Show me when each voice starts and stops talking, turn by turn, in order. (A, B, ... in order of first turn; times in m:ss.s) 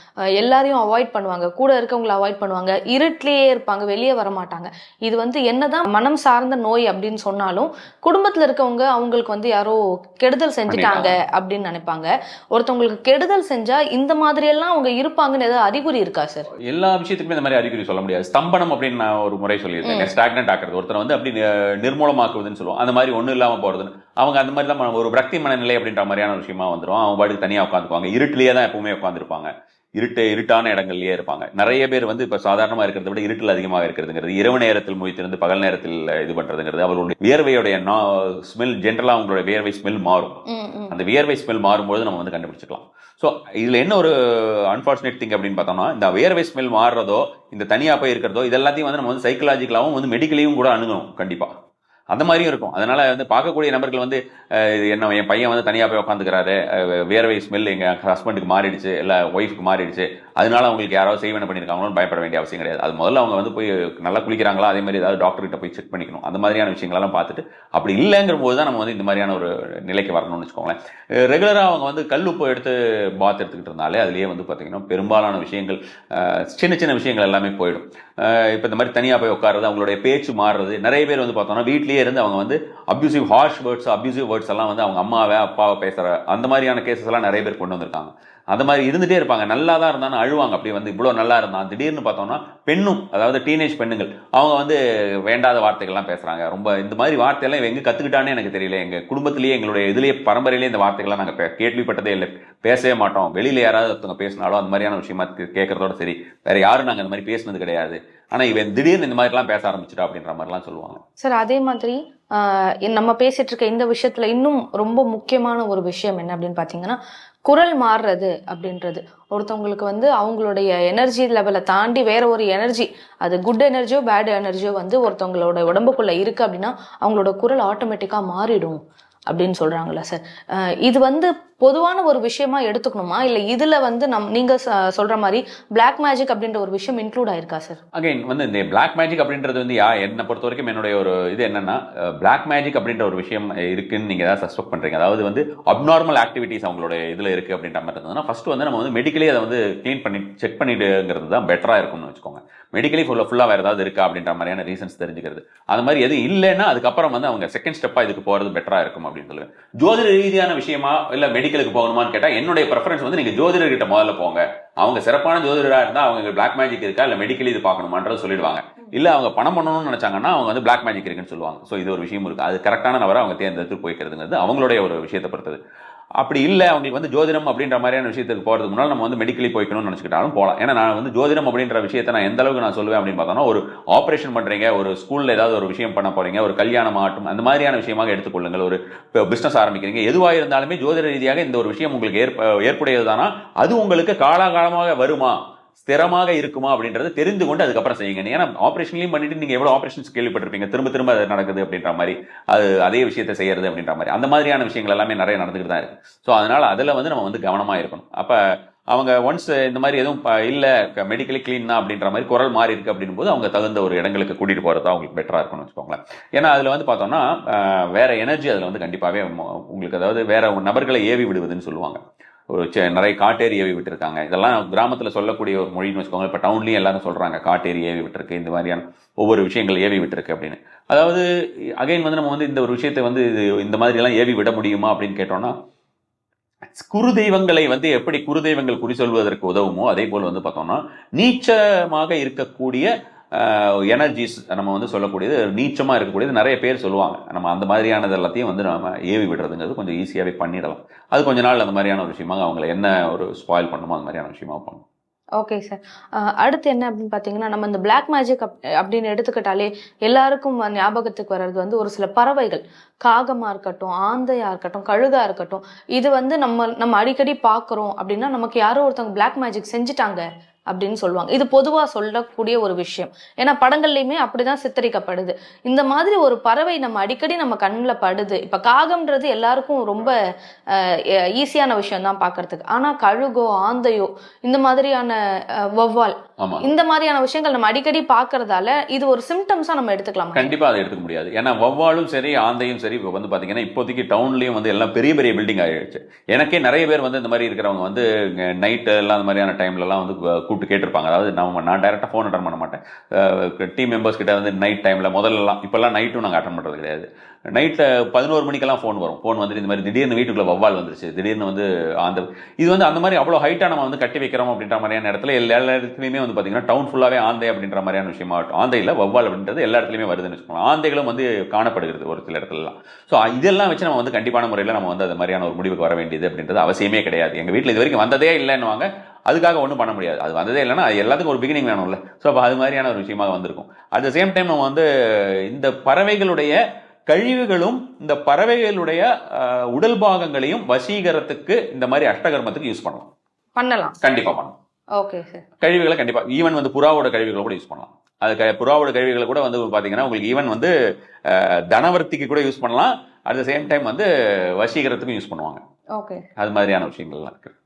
0:00.4-0:16.5 A
0:10.7-0:11.1 B
0:16.6-0:51.5 B
0:19.8-0:20.1 A
0:40.5-0:40.9 A
0:52.1-1:51.0 B
1:51.2-2:17.8 A
2:17.9-2:55.6 B
2:56.2-3:51.2 B
3:51.8-3:55.5 B
3:56.7-4:14.8 B
4:15.4-4:40.2 A
4:40.7-4:50.5 A
4:46.4-4:46.7 B
4:50.3-5:43.1 B
5:43.6-5:44.0 A
5:44.0-5:44.5 B
5:45.0-5:45.4 A
5:45.6-5:50.7 B
5:51.3-5:55.6 B
5:56.0-5:56.2 A
5:56.4-5:57.5 B